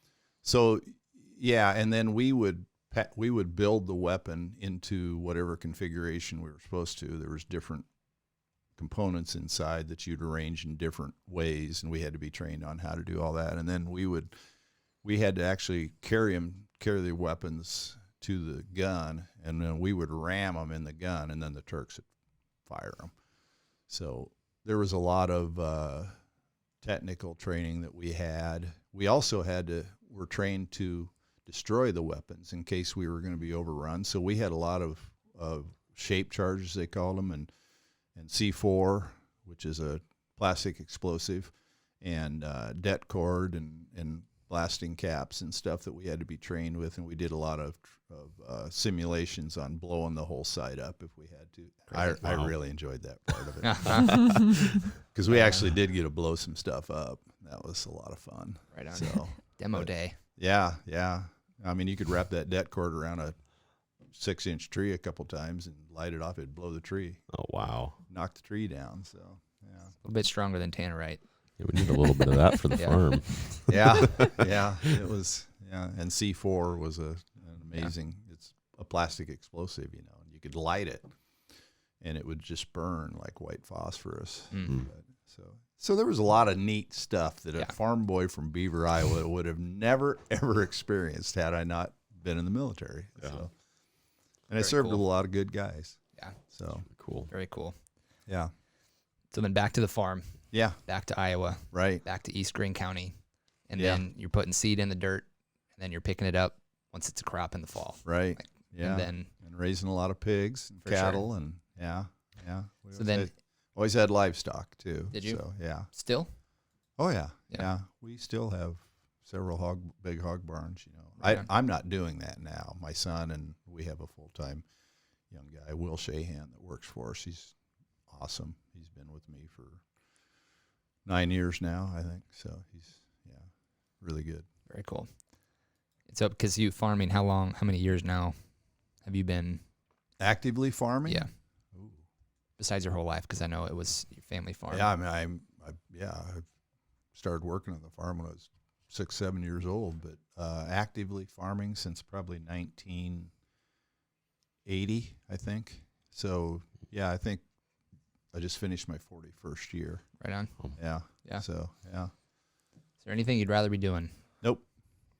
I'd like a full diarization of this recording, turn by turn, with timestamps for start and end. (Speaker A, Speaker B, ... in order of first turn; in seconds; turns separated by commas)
Speaker A: 0.4-7.9, Speaker A: 8.8-14.3, Speaker A: 15.0-22.1, Speaker A: 22.6-23.1, Speaker A: 23.9-26.1, Speaker A: 26.8-37.5, Speaker A: 38.1-63.3, Speaker B: 51.9-52.2, Speaker C: 52.2-52.5, Speaker B: 53.6-54.4, Speaker B: 55.3-55.7, Speaker B: 58.7-60.2, Speaker A: 64.1-67.3, Speaker C: 67.3-68.0, Speaker A: 68.1-69.9, Speaker B: 70.0-71.2, Speaker C: 71.6-74.3, Speaker B: 72.7-73.6, Speaker A: 73.7-81.1, Speaker A: 82.0-93.5, Speaker B: 84.5-84.8, Speaker A: 94.5-96.9, Speaker B: 94.6-95.0, Speaker C: 96.9-97.3, Speaker B: 97.3-97.7, Speaker A: 98.3-98.5, Speaker B: 99.3-103.1, Speaker A: 100.5-100.8, Speaker A: 101.7-102.0, Speaker B: 103.7-109.3, Speaker A: 103.8-104.0, Speaker A: 108.0-115.9, Speaker B: 110.8-111.2, Speaker B: 112.9-113.3, Speaker B: 115.1-116.3, Speaker A: 117.0-124.6, Speaker B: 121.2-121.5, Speaker A: 125.3-127.5, Speaker A: 128.1-129.8, Speaker A: 131.0-133.5, Speaker A: 134.0-134.4, Speaker B: 134.7-135.1, Speaker B: 136.1-138.3, Speaker B: 139.0-139.6, Speaker A: 140.2-142.0, Speaker B: 142.6-144.9, Speaker A: 144.7-146.5, Speaker A: 147.1-153.3, Speaker A: 154.6-157.4, Speaker A: 158.3-162.1, Speaker B: 160.2-161.4, Speaker B: 163.0-164.1